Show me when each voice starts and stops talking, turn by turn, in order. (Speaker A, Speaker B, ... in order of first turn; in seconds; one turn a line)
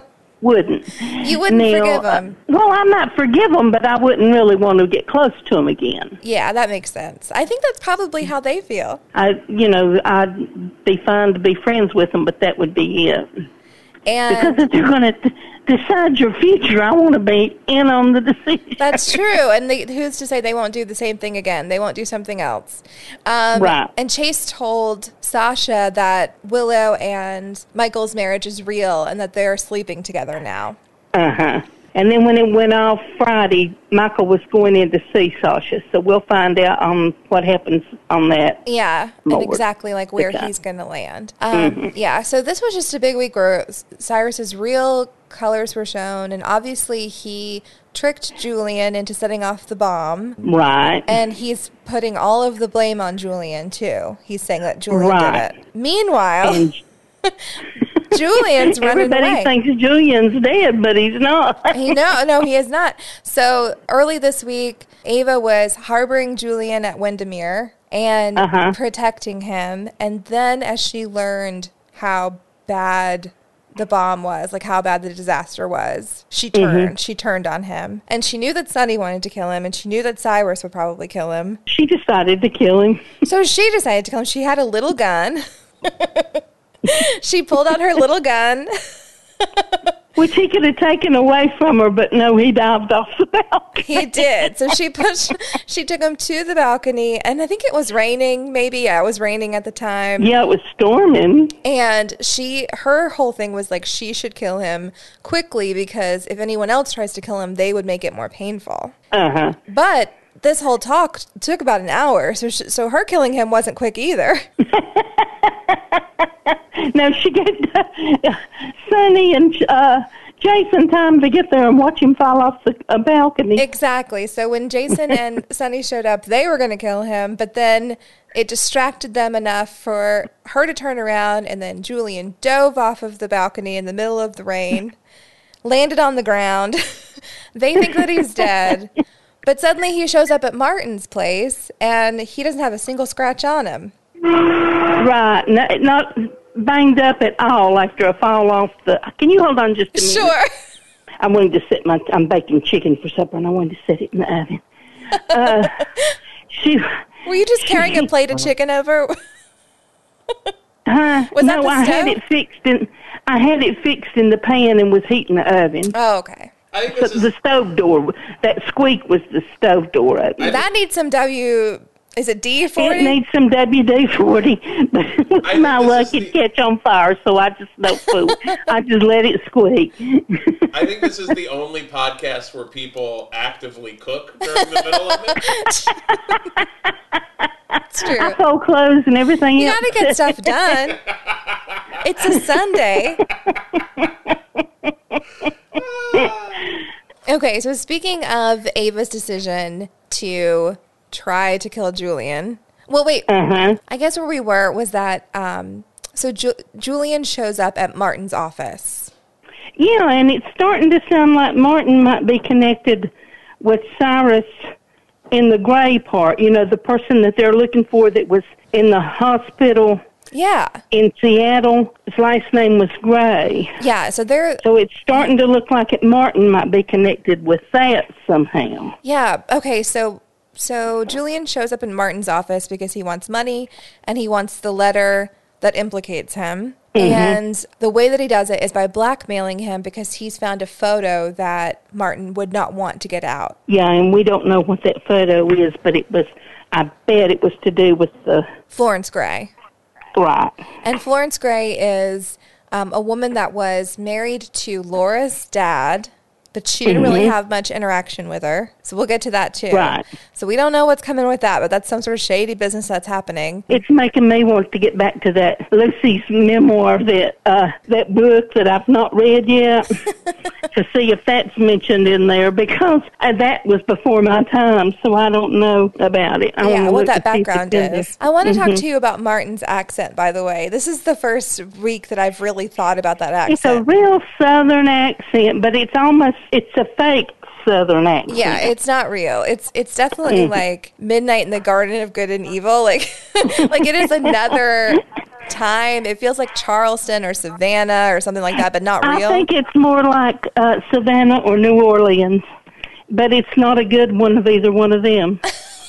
Speaker A: 0.4-6.2
Speaker B: 1.2-2.4
Speaker B: 6.2-9.0
Speaker A: 9.2-13.3
Speaker B: 14.1-14.7
Speaker A: 14.3-19.1
Speaker B: 18.8-30.8
Speaker A: 23.6-23.9
Speaker A: 31.1-38.6
Speaker B: 38.7-50.4
Speaker A: 39.3-39.6
Speaker A: 40.2-40.5
Speaker A: 41.5-41.9
Speaker A: 50.4-51.1
Speaker B: 51.1-56.7
Speaker A: 54.9-55.5
Speaker A: 56.4-56.8
Speaker A: 58.0-62.0
Speaker B: 58.1-59.5
Speaker B: 61.7-81.6
Speaker A: 68.4-68.8
Speaker A: 76.5-76.9
Speaker A: 81.7-83.1
Speaker B: 83.2-88.7
Speaker B: 89.5-89.8
Speaker A: 90.2-94.4
Speaker B: 93.8-100.3
Speaker A: 100.2-101.5
Speaker B: 101.6-108.9
Speaker A: 109.1-109.6
Speaker B: 109.7-114.5
Speaker A: 114.7-123.7
Speaker B: 123.6-135.0
Speaker B: 135.6-136.8
Speaker B: 137.6-138.9
Speaker B: 139.4-143.9
Speaker A: 144.8-150.3
Speaker B: 149.9-150.5
Speaker A: 151.2-155.9
Speaker B: 155.3-156.1
Speaker A: 156.5-157.0
Speaker B: 157.3-159.2
Speaker A: 157.6-158.0
Speaker A: 160.9-165.9
Speaker B: 161.3-162.2
Speaker B: 165.9-166.5
Speaker C: 166.7-167.3
Speaker A: 166.9-170.6
Speaker B: 170.4-173.2
Speaker A: 172.8-180.7
Speaker C: 175.4-176.3
Speaker C: 180.7-185.7
Speaker B: 184.6-185.9
Speaker A: 186.1-186.7
Speaker A: 187.7-190.4
Speaker B: 187.9-188.4
Speaker B: 189.6-191.0
Speaker B: 192.0-193.2
Speaker A: 193.7-195.2
Speaker C: 195.8-196.6
Speaker B: 197.3-203.3
Speaker A: 203.3-203.8
Speaker B: 203.9-209.1
Speaker A: 209.8-214.7
Speaker A: 215.3-220.0
Speaker B: 220.3-220.8
Speaker A: 220.9-223.8
Speaker B: 223.8-224.6
Speaker A: 224.6-229.0
Speaker B: 229.0-243.6
Speaker A: 236.9-237.4
Speaker A: 243.7-248.5
Speaker B: 248.7-249.5
Speaker A: 250.2-250.6
Speaker B: 250.8-263.7
Speaker A: 256.9-257.3
Speaker A: 259.7-260.1
Speaker A: 263.7-270.0
Speaker A: 270.7-278.8
Speaker B: 276.6-283.8
Speaker A: 283.5-288.7
Speaker B: 288.3-299.5
Speaker A: 290.3-290.5
Speaker A: 299.0-302.4
Speaker A: 303.1-305.4